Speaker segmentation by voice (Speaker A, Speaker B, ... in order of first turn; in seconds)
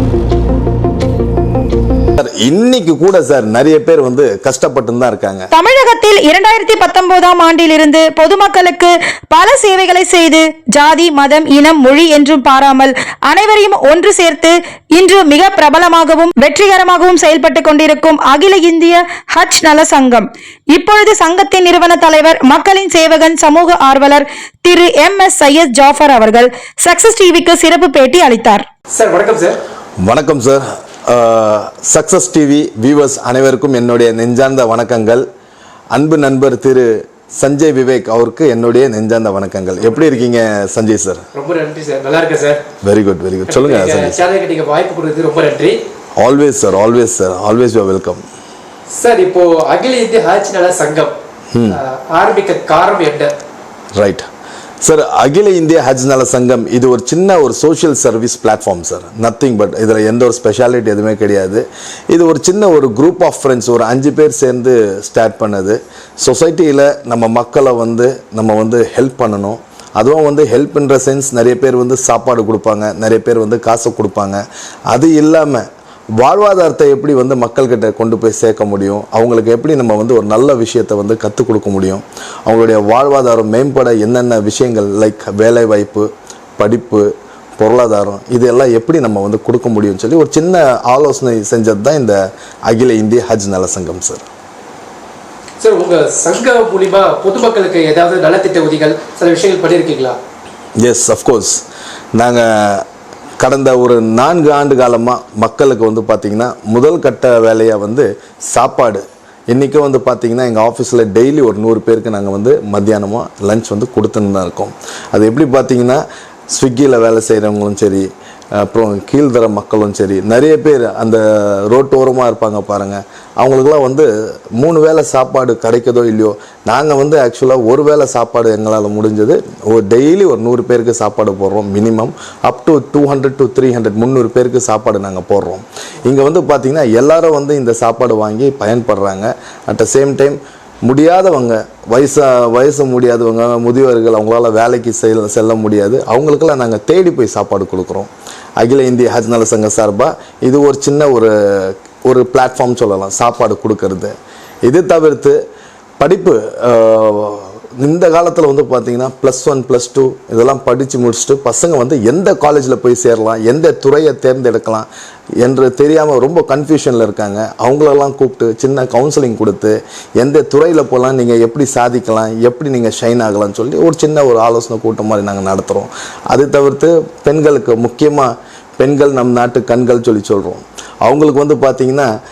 Speaker A: 2.2-5.5, 30.0-35.2, 35.9-41.2, 42.8-44.2, 46.2-48.2, 51.5-51.8, 54.0-54.2, 54.8-75.7, 76.2-94.2, 100.8-101.6, 102.1-102.8, 103.4-118.1, 118.6-154.1, 154.6-155.4, 156.0-164.9, 165.4-182.1
Speaker B: 5.5-28.6
Speaker C: 28.9-29.6, 41.3-42.6, 43.5-45.8, 48.9-51.1, 51.7-53.3, 95.6-100.2